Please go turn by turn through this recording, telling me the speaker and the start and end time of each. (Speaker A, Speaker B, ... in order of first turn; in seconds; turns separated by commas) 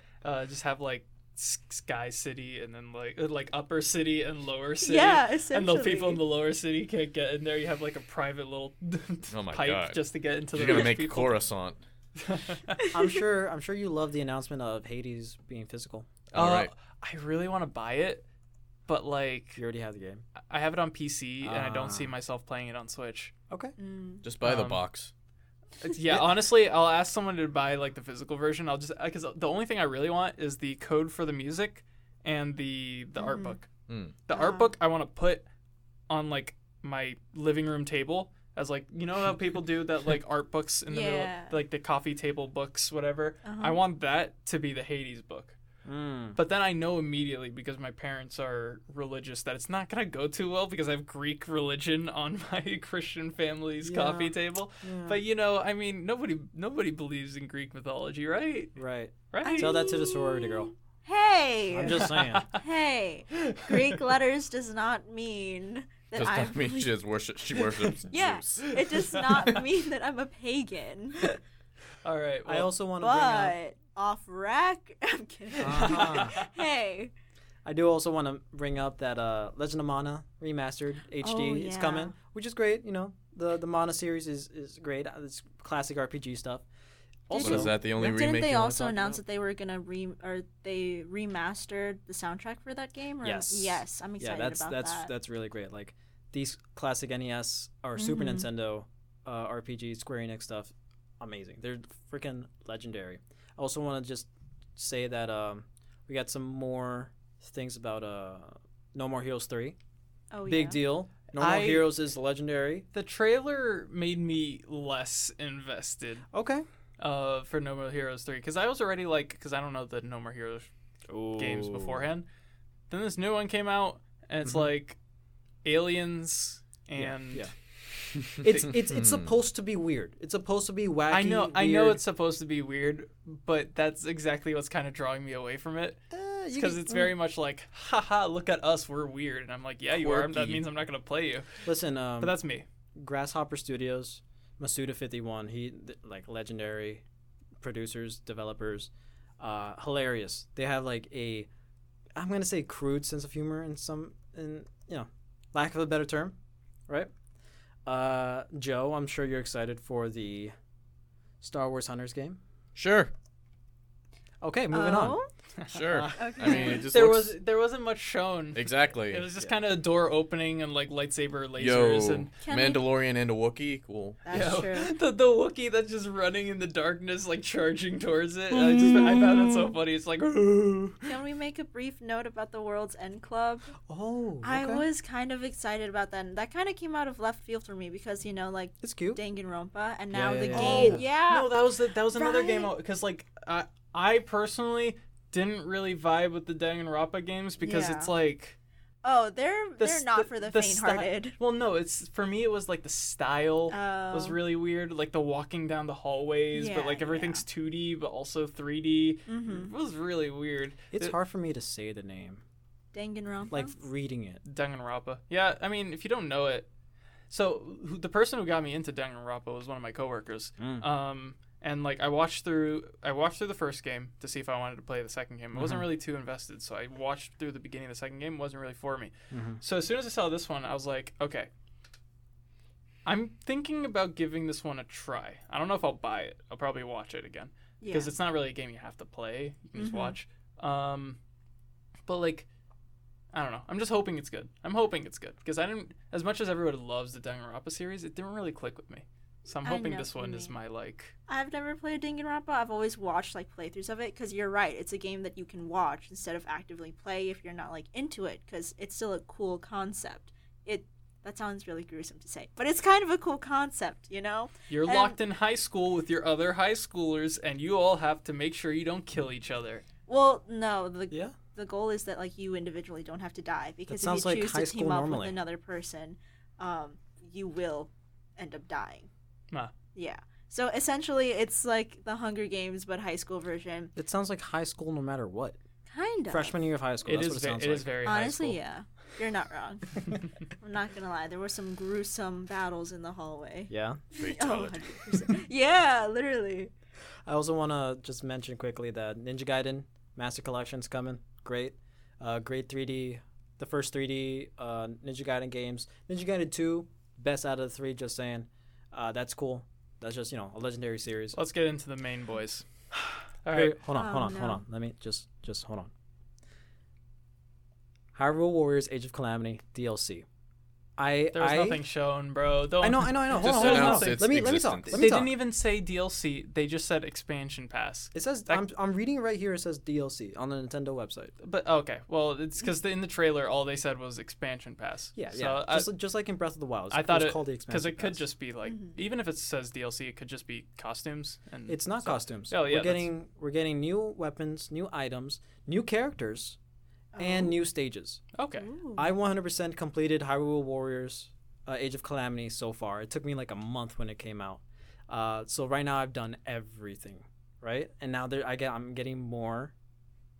Speaker A: 0.2-11.4, Speaker B: 4.8-6.2, Speaker C: 9.3-11.8, Speaker A: 12.2-12.9, Speaker D: 12.9-16.1, Speaker C: 16.3-16.7, Speaker A: 16.3-18.2, Speaker A: 18.9-19.6, Speaker D: 19.6-20.2, Speaker A: 20.5-23.3, Speaker D: 21.4-22.1, Speaker D: 23.5-23.8, Speaker B: 23.8-24.2, Speaker C: 24.2-25.1, Speaker A: 24.4-24.8, Speaker A: 25.8-33.7, Speaker B: 33.2-33.6, Speaker C: 33.9-34.1, Speaker A: 34.3-35.5, Speaker B: 34.3-34.7, Speaker A: 36.1-45.6, Speaker B: 40.9-41.6, Speaker B: 43.4-43.8, Speaker D: 45.9-46.4, Speaker A: 46.4-58.8, Speaker D: 53.8-55.2, Speaker D: 58.8-60.7, Speaker A: 59.3-59.8, Speaker B: 59.4-66.9, Speaker D: 61.7-62.5, Speaker A: 61.9-62.6, Speaker A: 63.4-64.0, Speaker C: 66.2-68.7, Speaker B: 68.1-71.4, Speaker A: 68.6-69.6, Speaker A: 72.0-72.7, Speaker D: 72.5-73.6, Speaker B: 73.0-77.1, Speaker A: 75.5-76.5, Speaker D: 75.6-76.4, Speaker D: 77.7-86.7, Speaker B: 81.2-82.1, Speaker D: 87.3-87.8, Speaker B: 87.3-95.1, Speaker C: 87.4-89.2, Speaker D: 93.2-109.8, Speaker B: 98.0-98.5, Speaker B: 110.3-110.8, Speaker D: 110.5-112.9, Speaker A: 111.4-111.9, Speaker A: 112.9-116.3, Speaker D: 116.3-116.7, Speaker A: 117.0-120.7, Speaker D: 121.1-122.0, Speaker A: 121.3-122.3, Speaker A: 122.9-125.0, Speaker A: 125.6-127.5, Speaker D: 127.0-127.5, Speaker D: 128.3-132.0, Speaker C: 128.9-129.3, Speaker A: 131.1-136.0, Speaker D: 136.1-137.1, Speaker A: 136.5-141.6, Speaker D: 139.9-140.6, Speaker D: 141.7-142.4, Speaker A: 142.2-142.7, Speaker D: 142.9-147.0, Speaker D: 147.6-151.5, Speaker D: 152.2-156.4, Speaker D: 157.9-160.5, Speaker D: 161.4-162.4, Speaker C: 162.8-163.1, Speaker D: 164.4-165.2, Speaker B: 164.7-165.3, Speaker A: 165.6-172.3, Speaker C: 165.7-167.4, Speaker D: 165.9-166.5, Speaker B: 166.2-166.8, Speaker C: 168.6-169.2, Speaker C: 171.6-174.2, Speaker B: 172.4-172.8, Speaker B: 174.2-174.9, Speaker A: 174.3-181.1, Speaker D: 178.8-179.0, Speaker B: 181.1-183.8, Speaker D: 183.8-184.9, Speaker B: 184.4-191.5, Speaker D: 188.8-189.2, Speaker D: 190.1-191.0, Speaker A: 190.5-198.6, Speaker B: 192.2-192.7, Speaker B: 197.6-198.1, Speaker B: 199.0-201.4, Speaker A: 199.8-211.2, Speaker B: 203.7-204.4, Speaker B: 206.5-207.4, Speaker B: 209.3-209.7, Speaker D: 210.9-212.4, Speaker B: 212.9-213.7, Speaker D: 213.5-214.4, Speaker A: 214.4-216.7, Speaker A: 217.3-231.5, Speaker D: 220.6-220.8, Speaker D: 225.6-225.9, Speaker D: 229.3-229.6, Speaker A: 233.1-241.2, Speaker B: 237.8-238.1, Speaker B: 239.8-240.2, Speaker A: 242.1-242.5, Speaker A: 243.3-251.1, Speaker B: 249.7-250.5, Speaker B: 251.3-265.2, Speaker A: 264.7-269.9, Speaker B: 270.1-279.1, Speaker D: 271.1-271.4, Speaker D: 273.9-275.4, Speaker B: 279.9-283.9, Speaker D: 284.0-285.6, Speaker B: 285.9-286.6, Speaker D: 286.3-288.0, Speaker A: 287.1-288.6, Speaker B: 288.0-296.7, Speaker D: 293.7-294.0, Speaker C: 294.1-295.2, Speaker D: 297.3-311.4, Speaker A: 311.3-312.7, Speaker D: 313.0-315.9, Speaker A: 313.4-313.8, Speaker B: 313.9-314.6, Speaker D: 318.1-320.3, Speaker D: 321.0-321.8, Speaker A: 321.3-324.3, Speaker D: 322.8-325.3, Speaker C: 323.3-325.1, Speaker A: 324.9-328.6, Speaker D: 328.1-331.3, Speaker A: 331.4-335.9, Speaker D: 335.2-338.2, Speaker A: 336.9-343.1, Speaker B: 338.7-338.9, Speaker D: 341.7-346.6, Speaker B: 347.1-347.6, Speaker D: 347.2-348.2, Speaker A: 348.3-348.7, Speaker B: 348.6-349.1, Speaker D: 349.0-359.7